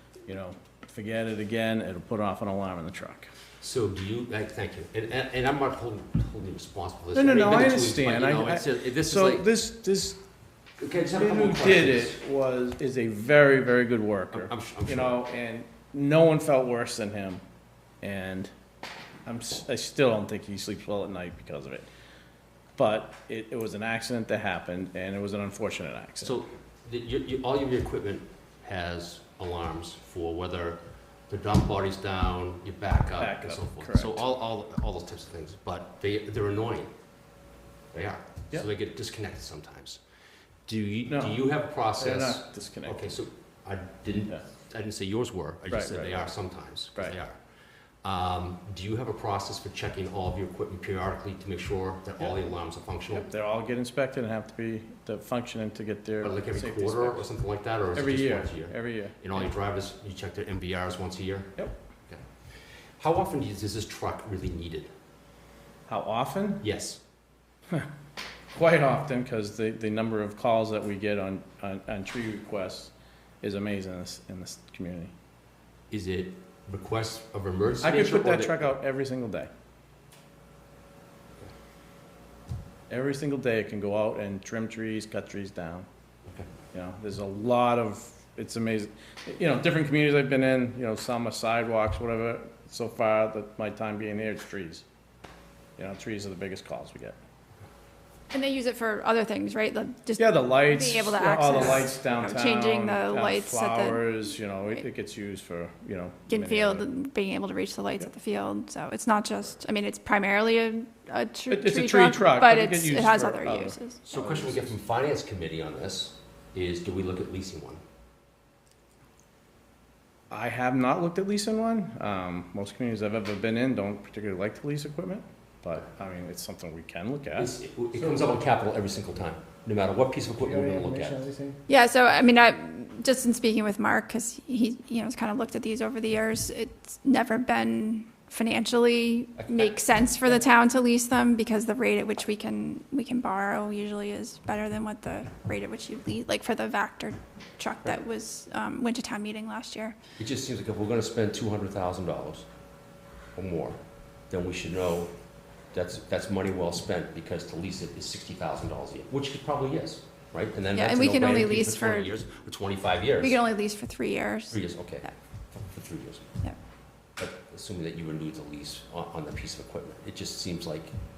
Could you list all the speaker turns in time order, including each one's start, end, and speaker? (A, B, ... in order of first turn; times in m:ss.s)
0:00.3-0:03.3 A
0:03.6-0:09.5 B
0:07.1-0:10.2 A
0:10.8-0:12.2 B
0:11.1-0:17.4 A
0:14.3-0:15.2 B
0:18.0-0:18.5 A
0:19.3-0:21.9 A
0:22.8-0:26.4 A
0:26.2-0:36.9 B
0:33.2-0:34.2 A
0:37.9-0:40.0 B
0:40.7-0:47.4 B
0:41.1-0:43.2 A
0:45.7-0:46.4 A
0:48.0-0:53.3 B
0:53.1-0:57.2 A
0:56.2-1:02.2 B
0:57.9-0:59.5 A
1:03.0-1:04.9 B
1:05.9-1:06.7 A
1:06.6-1:07.0 B
1:08.5-1:15.1 A
1:15.9-1:18.6 B
1:17.8-1:19.5 A
1:22.9-1:25.9 A
1:26.7-1:34.8 A
1:35.8-1:37.2 A
1:38.3-1:44.0 C
1:40.2-1:46.9 A
1:46.3-1:54.0 C
1:51.5-1:54.7 A
1:54.0-1:57.8 B
2:00.3-2:07.5 A
2:07.4-2:11.3 B
2:10.4-2:11.6 A
2:11.7-2:30.0 C
2:19.4-2:19.8 B
2:30.2-2:32.5 B
2:33.4-2:33.8 B
2:34.3-2:35.1 B
2:35.7-2:43.4 B
2:40.7-2:42.1 C
2:43.2-2:45.1 C
2:44.5-2:46.3 B
2:47.2-2:50.9 B